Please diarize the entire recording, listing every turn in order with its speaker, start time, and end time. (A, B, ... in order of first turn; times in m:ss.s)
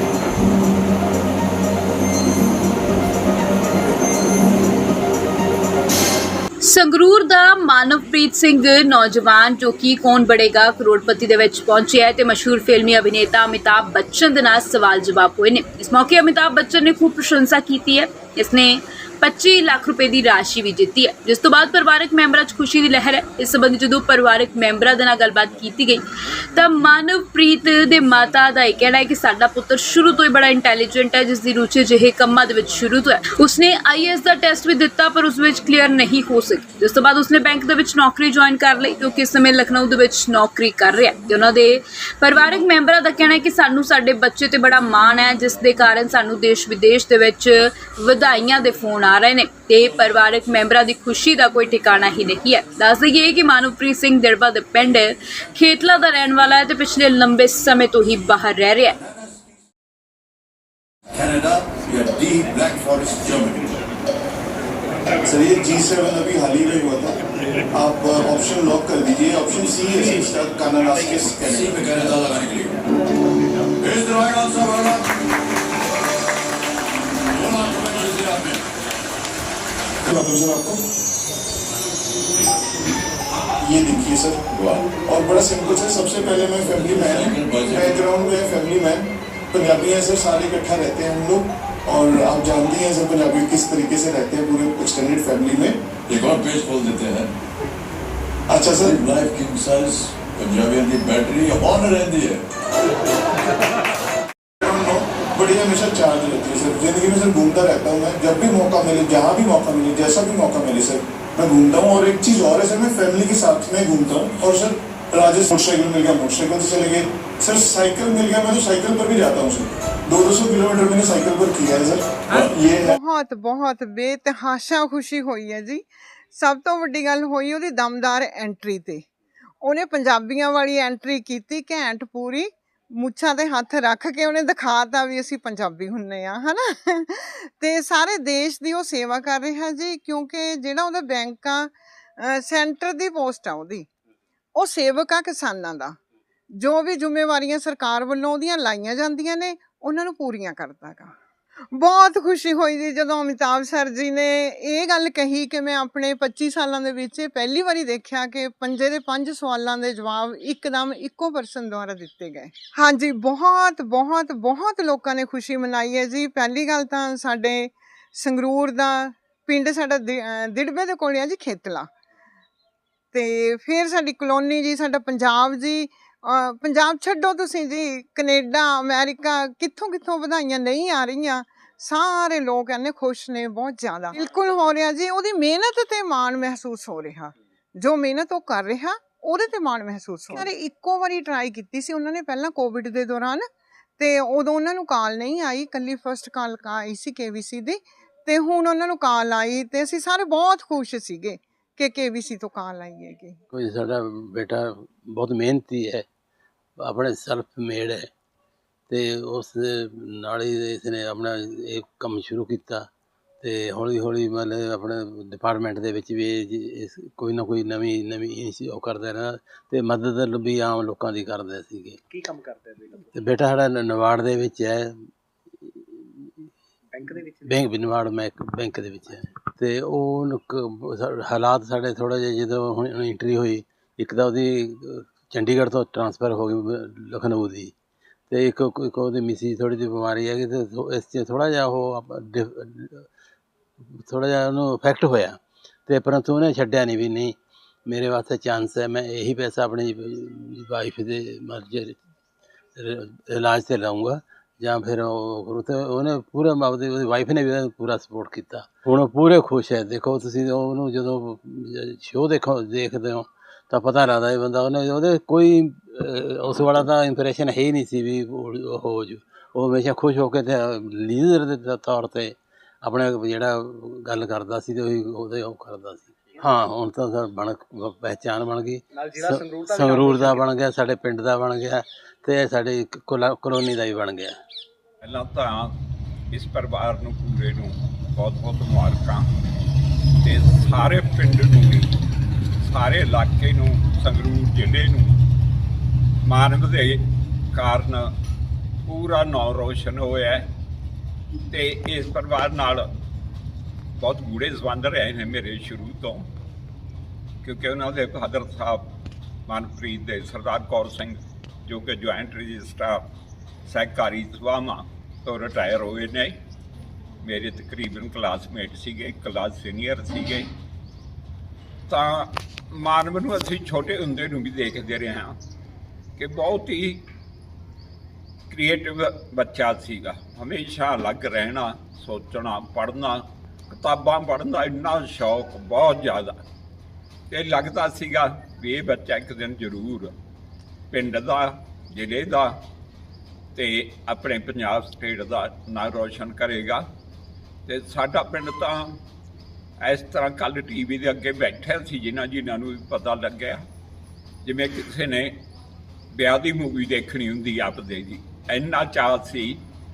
0:06.6-0:59.0 A
1:01.2-1:03.6 B
1:05.2-1:07.2 C
1:07.7-1:11.8 C
1:11.4-1:12.8 B
1:13.8-1:15.1 B
1:17.3-1:18.6 B
1:20.1-1:20.8 C
1:23.6-1:24.4 C
1:24.5-1:25.0 B
1:25.0-1:35.8 C
1:26.6-1:28.0 B
1:36.1-1:37.3 B
1:38.5-1:39.0 C
1:38.8-1:42.4 B
1:44.6-2:03.0 C
2:02.8-2:09.1 D
2:09.6-2:23.9 D
2:24.6-2:26.0 D
2:26.6-2:31.1 D
2:31.7-2:51.9 D
2:53.1-3:13.4 D
3:14.0-3:23.4 D
3:23.5-3:26.0 E
3:26.8-3:28.1 E
3:28.9-3:32.9 E
3:33.4-3:42.0 E
3:42.1-3:43.1 F
3:43.1-3:45.0 E
3:45.6-3:46.5 E
3:47.0-3:47.6 F
3:47.4-3:57.7 E
3:58.3-4:03.1 E
4:04.0-4:07.4 E
4:07.9-4:12.0 E
4:12.8-4:44.3 E
4:39.0-4:40.5 F
4:45.0-4:45.7 G
4:46.3-4:49.3 G
4:50.2-4:51.9 G
4:52.6-4:55.2 G
4:56.3-4:57.0 G
4:57.5-4:58.1 G
4:58.9-5:00.4 G
5:01.5-5:02.9 G
5:04.0-5:06.3 G
5:07.4-5:08.9 G
5:09.5-5:13.0 G
5:13.7-5:16.4 G
5:17.2-5:20.5 G
5:21.9-5:25.4 G
5:26.2-5:27.0 G
5:28.5-5:36.4 G
5:37.3-5:40.1 G
5:40.9-5:42.6 G
5:43.6-5:46.8 G
5:47.7-5:49.0 G
5:49.8-5:53.6 G
5:54.4-5:55.3 G
5:56.1-5:59.6 G